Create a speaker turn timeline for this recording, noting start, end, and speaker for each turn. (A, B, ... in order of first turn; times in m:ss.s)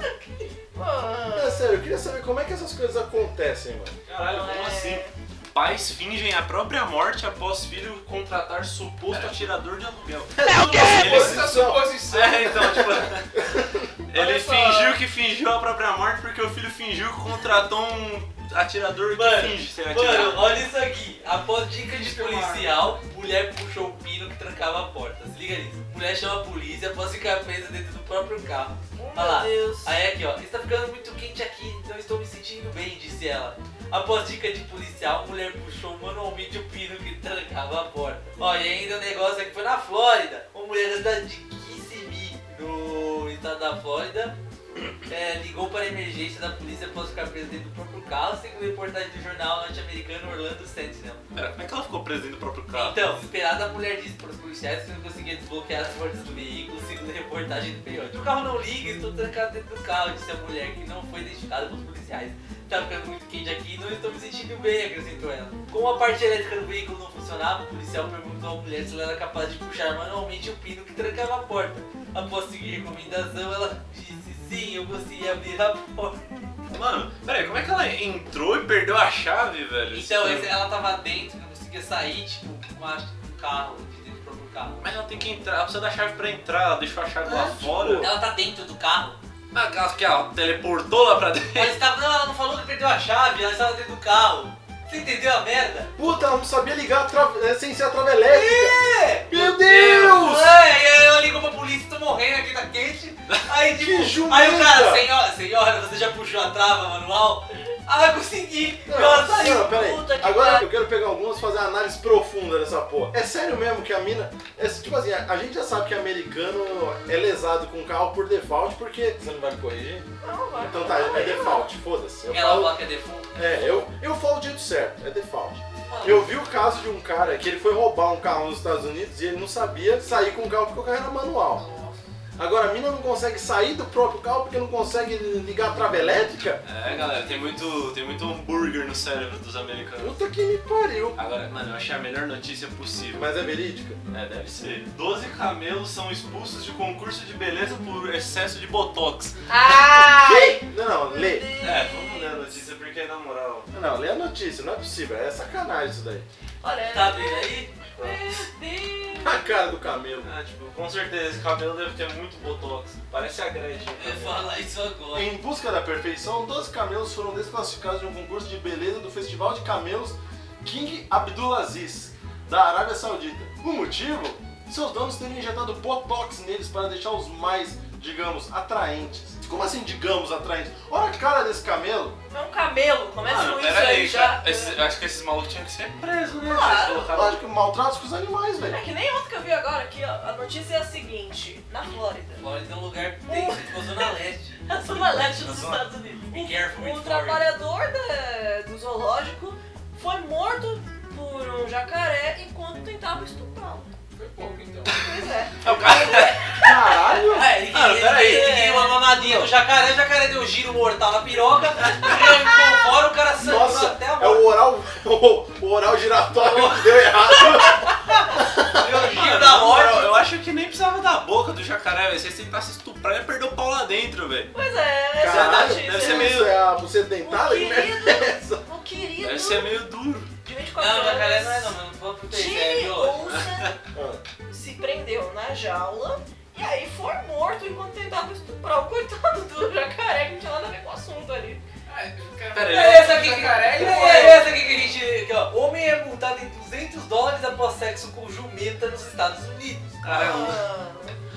0:00.7-0:01.7 A
0:01.3-0:04.0 B
0:04.1-0:11.6 C
0:04.3-0:05.1 A
0:10.4-0:11.9 B
0:10.7-0:12.9 D
0:12.1-0:13.3 C
0:13.3-0:13.9 B
0:14.1-0:20.5 C
0:14.1-0:15.0 A
0:19.1-0:44.3 E
0:21.8-0:23.0 D
0:29.0-0:29.9 A
0:45.1-0:51.2 E
0:51.3-0:53.0 C
0:52.7-1:16.2 E
1:16.7-1:20.5 C
1:19.9-1:24.9 E
1:24.8-1:28.1 C
1:27.2-1:28.1 B
1:28.0-1:29.2 E
1:29.5-1:31.8 C
1:31.5-1:35.9 E
1:36.0-1:38.8 B
1:38.2-1:39.3 E
1:39.3-1:40.4 B
1:39.3-1:40.5 C
1:40.0-1:49.7 E
1:43.7-1:45.0 B
1:48.9-2:02.8 B
1:49.5-1:50.7 A
2:00.2-2:01.7 A
2:02.3-2:03.9 E
2:03.4-2:11.6 B
2:05.9-2:06.3 E
2:11.6-2:12.0 A
2:12.4-2:16.6 B
2:16.6-2:20.2 C
2:20.0-2:21.2 B
2:21.2-2:23.3 C
2:23.1-2:24.0 B
2:24.1-2:29.4 C
2:29.5-2:32.6 A
2:29.6-2:31.5 B
2:31.6-2:33.7 C
2:33.7-2:36.2 B
2:36.6-2:39.6 A
2:36.9-2:37.7 E
2:38.0-2:38.4 C
2:39.2-2:40.3 B
2:40.2-2:44.5 C
2:44.0-2:45.3 E
2:45.1-3:02.2 B
3:02.3-3:04.8 A
3:03.2-3:07.4 C
3:06.4-3:07.1 A
3:07.0-3:08.8 B
3:08.6-3:12.4 A
3:12.4-3:14.6 E
3:13.3-3:14.1 A
3:14.6-3:23.9 A
3:16.3-3:17.5 E
3:24.1-3:25.0 D
3:25.0-3:27.3 A
3:25.6-3:26.6 C
3:25.8-3:27.6 B
3:27.3-3:34.5 E
3:27.6-3:28.6 C
3:28.0-3:29.1 A
3:31.8-3:32.2 C
3:33.4-3:38.8 B
3:36.4-3:37.5 E
3:38.7-3:44.5 C
3:38.9-3:40.2 E
3:44.5-3:46.6 A
3:45.2-3:48.6 B
3:45.2-3:46.6 C
3:47.2-3:49.8 A
3:49.2-3:50.3 C
3:50.4-3:51.8 A
3:50.8-3:53.3 E
3:52.3-3:53.8 A
3:53.9-3:54.2 B
3:54.5-4:01.6 A
4:01.9-4:04.8 D
4:02.5-4:03.3 C
4:02.6-4:10.0 E
4:10.0-4:10.6 C
4:10.1-4:11.2 A